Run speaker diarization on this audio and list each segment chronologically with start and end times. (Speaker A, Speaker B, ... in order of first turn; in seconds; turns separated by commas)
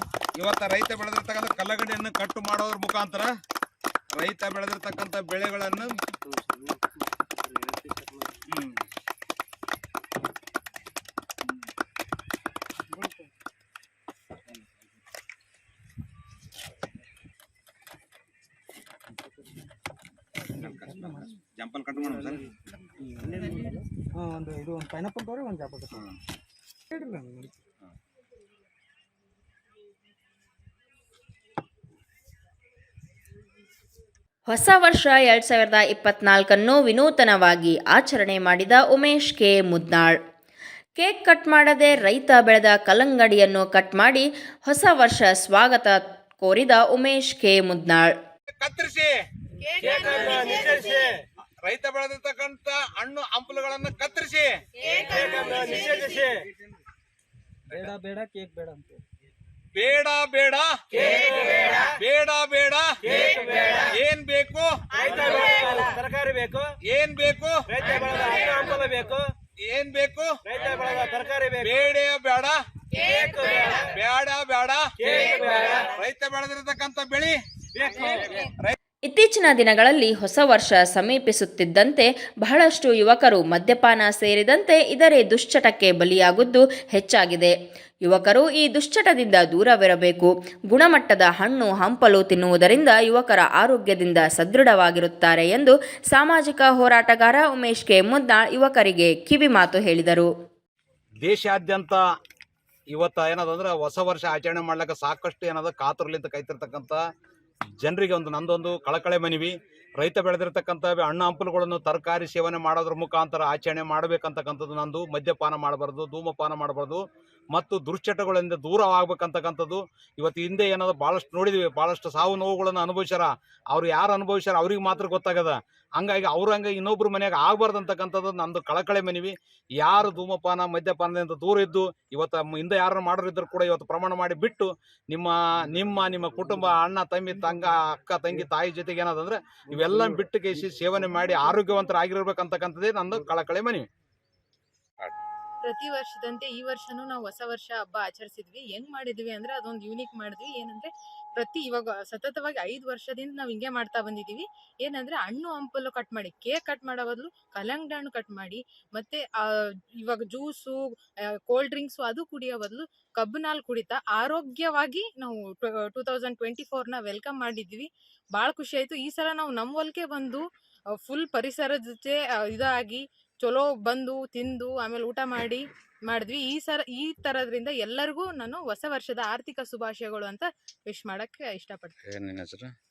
Speaker A: 0.4-3.3, Speaker A: 4.1-6.0, Speaker B: 6.2-6.5, Speaker B: 7.4-8.3, Speaker A: 8.5-8.8, Speaker A: 20.6-22.5, Speaker C: 20.6-21.3, Speaker C: 22.0-22.3, Speaker C: 23.0-26.1, Speaker C: 26.9-27.6, Speaker D: 34.5-40.2, Speaker D: 41.0-48.1, Speaker A: 48.6-49.1, Speaker B: 49.8-51.2, Speaker A: 49.9-50.3, Speaker A: 51.6-54.5, Speaker B: 54.9-56.4, Speaker C: 57.7-59.0, Speaker A: 59.7-65.4, Speaker B: 63.1-63.7, Speaker B: 65.0-66.7, Speaker A: 66.8-67.6, Speaker B: 67.7-69.3, Speaker A: 69.6-70.4, Speaker B: 70.5-71.6, Speaker A: 71.6-72.6, Speaker B: 73.1-73.7, Speaker A: 73.6-77.3, Speaker B: 75.1-75.6, Speaker B: 77.8-78.2, Speaker A: 78.3-78.8, Speaker D: 79.0-87.5, Speaker D: 88.0-100.3, Speaker A: 101.2-102.0, Speaker A: 102.9-107.0, Speaker A: 107.8-143.8, Speaker E: 145.6-160.9, Speaker E: 161.5-170.4, Speaker E: 171.0-182.0, Speaker A: 182.0-182.7